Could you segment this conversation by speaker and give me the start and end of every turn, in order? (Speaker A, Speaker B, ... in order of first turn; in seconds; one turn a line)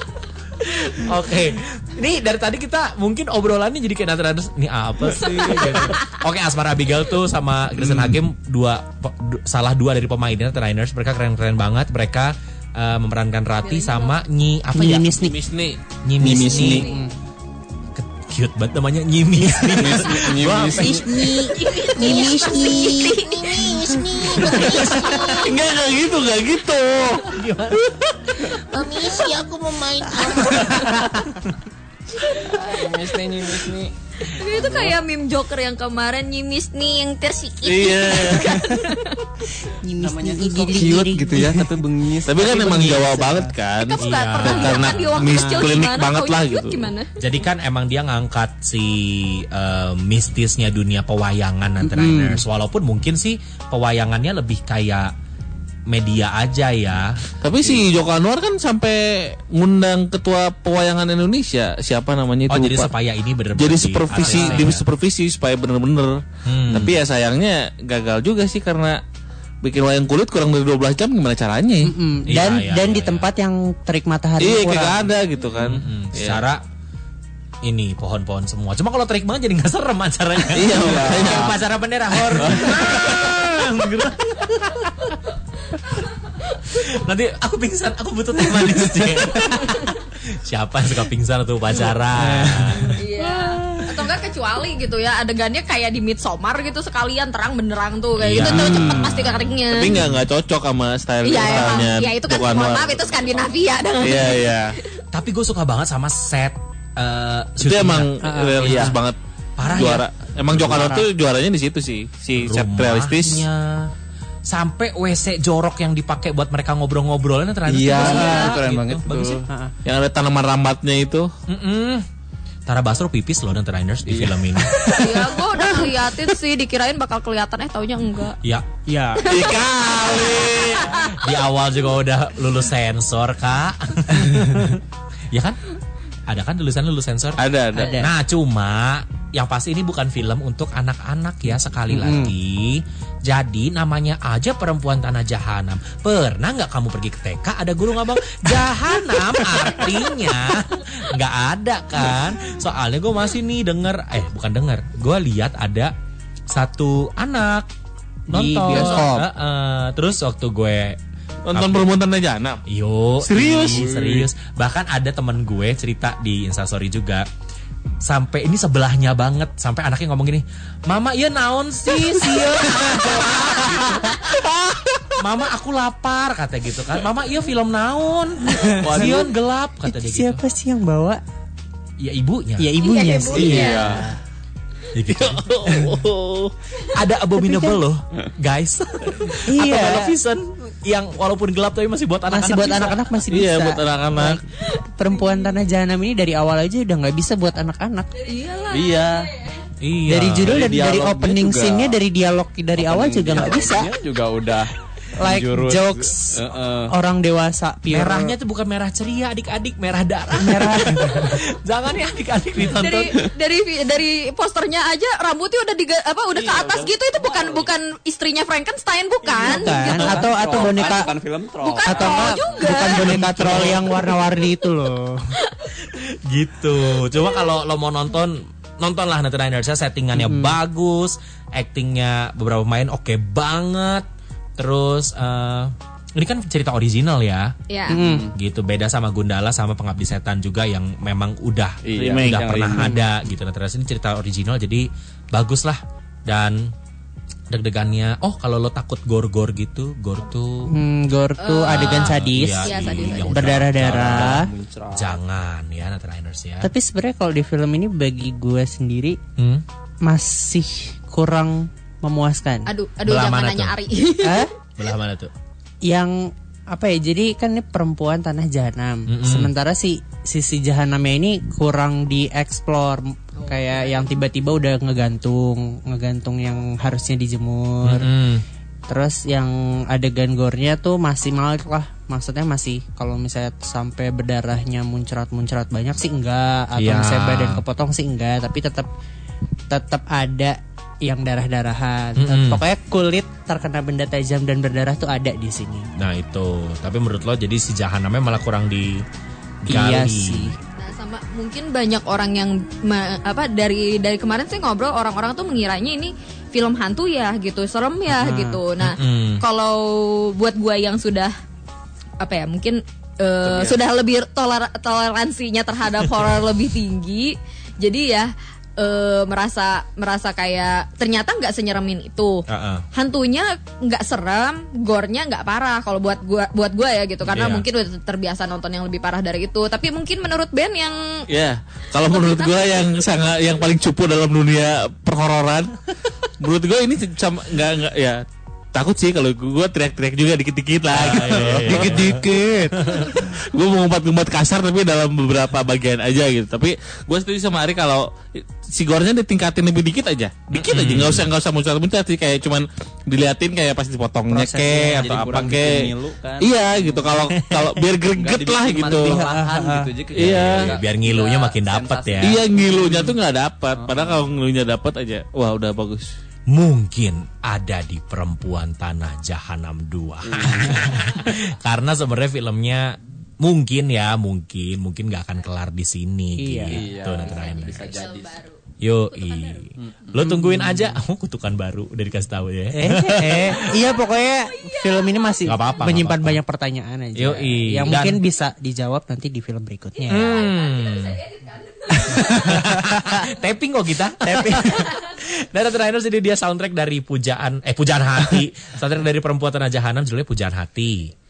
Speaker A: 0.6-15.2
Speaker B: 13.6-14.2
Speaker C: 14.8-15.4
Speaker D: 15.2-15.8
Speaker A: 16.0-16.9
Speaker E: 16.2-16.9
Speaker B: 16.3-17.1
Speaker C: 16.7-17.1
Speaker A: 17.9-22.3
Speaker E: 19.8-21.0
Speaker C: 20.8-23.2
Speaker B: 21.1-25.5
Speaker A: 24.1-25.5
Speaker D: 24.6-27.4
Speaker A: 27.2-28.6
Speaker B: 28.8-29.2
Speaker D: 29.1-31.0
Speaker C: 30.3-30.8
Speaker A: 30.8-31.5
Speaker E: 32.8-33.9
Speaker B: 34.2-39.2
Speaker D: 37.6-38.6
Speaker C: 39.8-41.9
Speaker E: 40.0-43.4
Speaker D: 42.3-46.9
Speaker C: 42.5-43.5
Speaker B: 43.8-47.1
Speaker A: 44.0-45.2
Speaker C: 45.2-45.7
Speaker A: 47.2-55.1
Speaker C: 51.8-52.4
Speaker A: 55.9-57.8
Speaker D: 57.4-62.9
Speaker A: 62.5-64.8
Speaker D: 63.5-69.0
Speaker C: 64.2-64.6
Speaker A: 66.5-67.0
Speaker D: 69.6-71.9
Speaker C: 71.8-75.0
Speaker A: 72.3-73.3
Speaker D: 74.4-76.4
Speaker A: 75.6-76.6
Speaker A: 77.6-85.2
Speaker D: 80.5-81.6
Speaker D: 82.3-83.3
Speaker A: 86.5-93.0
Speaker C: 92.2-92.8
Speaker B: 92.8-100.0
Speaker A: 98.2-100.1
Speaker C: 98.4-99.1
Speaker D: 99.7-104.8
Speaker B: 101.2-104.9
Speaker A: 105.1-109.0
Speaker D: 107.6-113.5
Speaker C: 108.2-109.0
Speaker A: 109.6-110.9
Speaker C: 110.7-111.1
Speaker A: 112.4-113.9
Speaker A: 114.5-119.4
Speaker E: 117.7-119.4
Speaker B: 118.0-118.5
Speaker C: 118.0-118.4
Speaker D: 119.8-121.3
Speaker A: 121.5-122.0
Speaker A: 122.7-125.0
Speaker E: 124.1-124.4
Speaker B: 124.9-128.4
Speaker C: 128.9-129.3
Speaker B: 129.2-131.3
Speaker D: 129.3-131.0
Speaker A: 130.9-135.6
Speaker A: 136.3-155.9
Speaker D: 137.4-138.0
Speaker C: 137.8-138.1
Speaker C: 141.9-142.3
Speaker A: 156.5-157.7
Speaker C: 158.3-159.3
Speaker A: 158.3-161.0
Speaker D: 158.8-159.1
Speaker D: 161.5-162.6
Speaker A: 161.5-161.9
Speaker A: 162.7-167.2
Speaker D: 163.2-164.3
Speaker A: 168.0-174.6
Speaker A: 175.1-180.4
Speaker C: 178.6-179.3
Speaker D: 178.9-179.2
Speaker C: 179.9-181.2
Speaker A: 182.0-182.7
Speaker C: 182.6-184.0
Speaker B: 182.8-184.1
Speaker D: 183.3-184.0
Speaker E: 183.4-183.9
Speaker A: 183.4-183.7
Speaker A: 184.9-193.1
Speaker C: 189.5-190.1
Speaker C: 192.3-194.4
Speaker D: 193.3-194.4
Speaker B: 194.8-195.5
Speaker C: 195.0-198.1
Speaker B: 198.1-199.6
Speaker E: 198.7-199.3
Speaker A: 199.8-200.7
Speaker C: 200.1-204.0
Speaker E: 200.4-202.0
Speaker E: 202.8-204.7
Speaker C: 205.2-208.3
Speaker E: 205.2-206.9
Speaker A: 207.9-213.2
Speaker C: 210.4-211.2
Speaker B: 212.7-223.3
Speaker E: 216.6-217.5
Speaker C: 219.4-221.2
Speaker E: 219.4-222.5
Speaker C: 221.8-225.2
Speaker D: 222.9-223.8
Speaker A: 223.4-223.7
Speaker B: 225.4-225.7
Speaker A: 225.8-234.1
Speaker C: 230.1-230.6
Speaker A: 234.6-237.5
Speaker B: 237.7-238.0
Speaker C: 237.9-238.3
Speaker A: 238.2-246.6
Speaker D: 241.9-242.9
Speaker E: 242.0-242.7
Speaker A: 247.5-250.7
Speaker C: 250.7-254.5
Speaker B: 251.4-253.6
Speaker A: 251.7-256.7
Speaker E: 254.4-255.2
Speaker C: 256.6-259.2
Speaker A: 259.4-259.6
Speaker C: 260.1-262.7
Speaker B: 262.7-264.5
Speaker A: 263.1-263.8
Speaker C: 264.2-264.5
Speaker A: 264.8-265.3
Speaker C: 265.9-278.1
Speaker A: 269.1-269.5
Speaker B: 273.4-274.1
Speaker A: 277.8-278.4
Speaker C: 278.9-288.9
Speaker A: 286.8-287.6
Speaker C: 289.7-295.9
Speaker A: 292.2-292.6
Speaker A: 296.0-299.0
Speaker A: 299.7-300.5
Speaker C: 299.7-300.6
Speaker B: 300.8-311.3
Speaker C: 308.1-308.6
Speaker A: 308.8-309.4
Speaker B: 312.2-322.4
Speaker D: 313.5-313.8
Speaker A: 322.5-322.9
Speaker B: 322.9-331.0
Speaker A: 327.3-327.7
Speaker D: 331.3-335.8
Speaker B: 332.0-332.9
Speaker D: 336.4-338.2
Speaker D: 338.7-342.1
Speaker A: 340.9-342.2
Speaker C: 341.1-342.9
Speaker E: 341.4-341.7
Speaker E: 342.2-342.7
Speaker A: 342.8-343.1
Speaker D: 343.1-355.9
Speaker A: 350.5-351.3
Speaker C: 354.3-355.4
Speaker E: 355.0-357.1
Speaker D: 356.4-359.3
Speaker A: 357.2-357.8
Speaker E: 358.2-362.8
Speaker C: 358.9-360.1
Speaker D: 360.1-360.7
Speaker A: 360.2-362.4
Speaker D: 362.2-366.1
Speaker E: 363.8-364.2
Speaker A: 366.5-377.9
Speaker E: 370.3-370.7
Speaker C: 376.4-376.7
Speaker B: 376.7-379.7
Speaker E: 376.7-378.4
Speaker A: 378.8-383.6
Speaker C: 382.7-390.3
Speaker B: 383.5-386.0
Speaker A: 385.5-386.4
Speaker A: 387.2-388.2
Speaker B: 390.0-392.5
Speaker A: 390.1-391.2
Speaker A: 392.1-401.1
Speaker C: 392.1-392.6
Speaker C: 394.2-394.8